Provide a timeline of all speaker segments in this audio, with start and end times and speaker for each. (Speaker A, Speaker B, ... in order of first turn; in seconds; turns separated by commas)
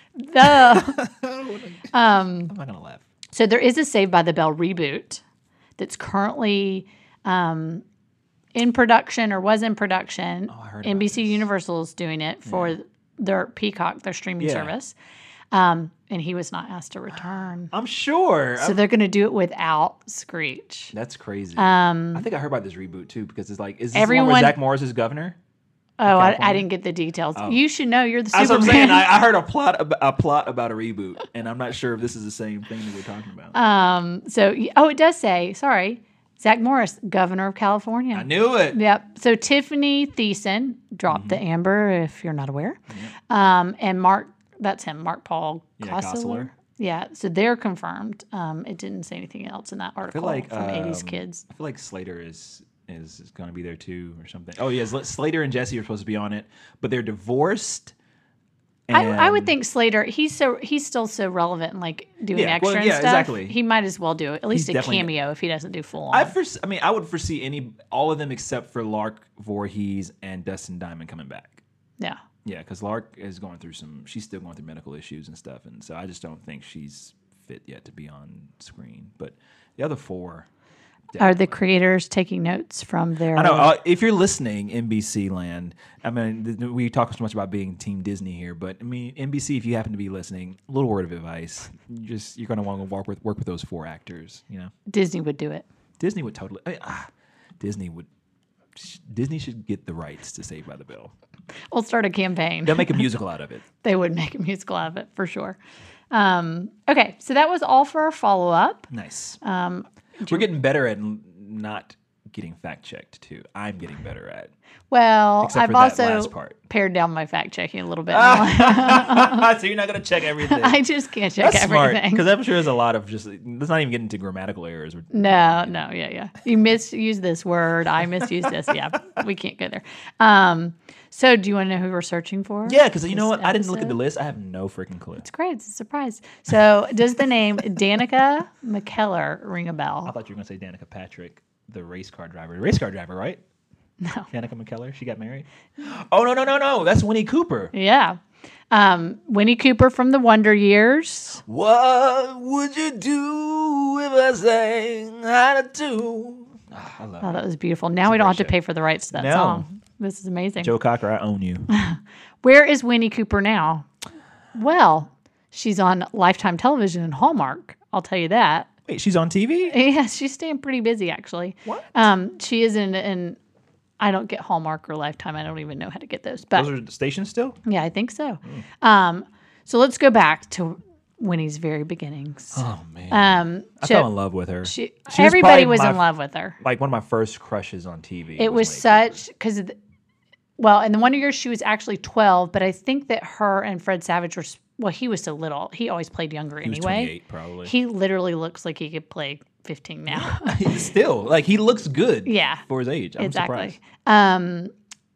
Speaker A: 0.2-1.0, Speaker B: 0.4-1.9, Speaker A: 1.9-2.5, Speaker B: 2.5-3.1, Speaker A: 3.3-5.2, Speaker A: 5.8-7.8, Speaker A: 8.5-14.9, Speaker B: 10.5-11.5, Speaker B: 12.5-12.8, Speaker B: 14.4-14.7, Speaker A: 15.5-17.7, Speaker B: 17.7-18.8, Speaker A: 18.6-20.9, Speaker B: 20.9-25.4, Speaker A: 21.6-22.3, Speaker A: 23.9-24.6, Speaker A: 26.0-29.1, Speaker B: 26.1-26.7, Speaker B: 28.3-33.6, Speaker A: 33.5-51.4, Speaker B: 38.1-38.8, Speaker B: 41.1-41.4, Speaker B: 45.8-46.5, Speaker B: 50.0-57.9, Speaker B: 58.9-59.5, Speaker A: 58.9-66.3, Speaker B: 62.3-63.5, Speaker B: 64.5-65.1, Speaker B: 66.1-71.6, Speaker B: 72.5-80.5, Speaker B: 81.1-81.6, Speaker A: 81.2-83.7, Speaker B: 83.3-94.7, Speaker A: 94.9-95.7, Speaker B: 96.0-97.1, Speaker B: 97.6-98.1, Speaker B: 98.8-101.1, Speaker A: 101.7-103.1, Speaker B: 102.7-103.6, Speaker A: 103.8-105.6, Speaker A: 106.1-108.9, Speaker B: 108.9-109.4, Speaker A: 109.4-110.5, Speaker B: 110.3-114.5, Speaker A: 114.9-119.5, Speaker B: 115.4-116.6, Speaker B: 118.1-120.8, Speaker A: 120.4-122.3, Speaker B: 121.4-125.8, Speaker A: 125.1-134.0, Speaker B: 128.2-129.0, Speaker B: 132.7-135.2, Speaker A: 135.2-140.1, Speaker B: 140.1-143.4, Speaker A: 144.0-144.3, Speaker B: 144.3-147.7, Speaker A: 147.7-148.2, Speaker A: 148.7-151.4, Speaker B: 151.5-157.4, Speaker A: 157.2-160.7, Speaker B: 158.0-158.6, Speaker B: 159.1-159.7, Speaker B: 160.6-161.7, Speaker A: 161.7-163.9, Speaker A: 164.5-168.7, Speaker B: 168.9-169.8, Speaker A: 169.7-173.4, Speaker B: 171.7-172.0, Speaker A: 174.0-176.7, Speaker B: 176.5-177.6, Speaker A: 177.7-184.1, Speaker B: 182.5-186.0, Speaker A: 184.6-186.6, Speaker B: 186.6-189.2, Speaker A: 188.4-189.8, Speaker A: 190.6-197.1, Speaker B: 196.6-197.7, Speaker A: 197.7-200.8, Speaker B: 200.1-203.8, Speaker A: 202.3-202.7, Speaker A: 203.2-204.7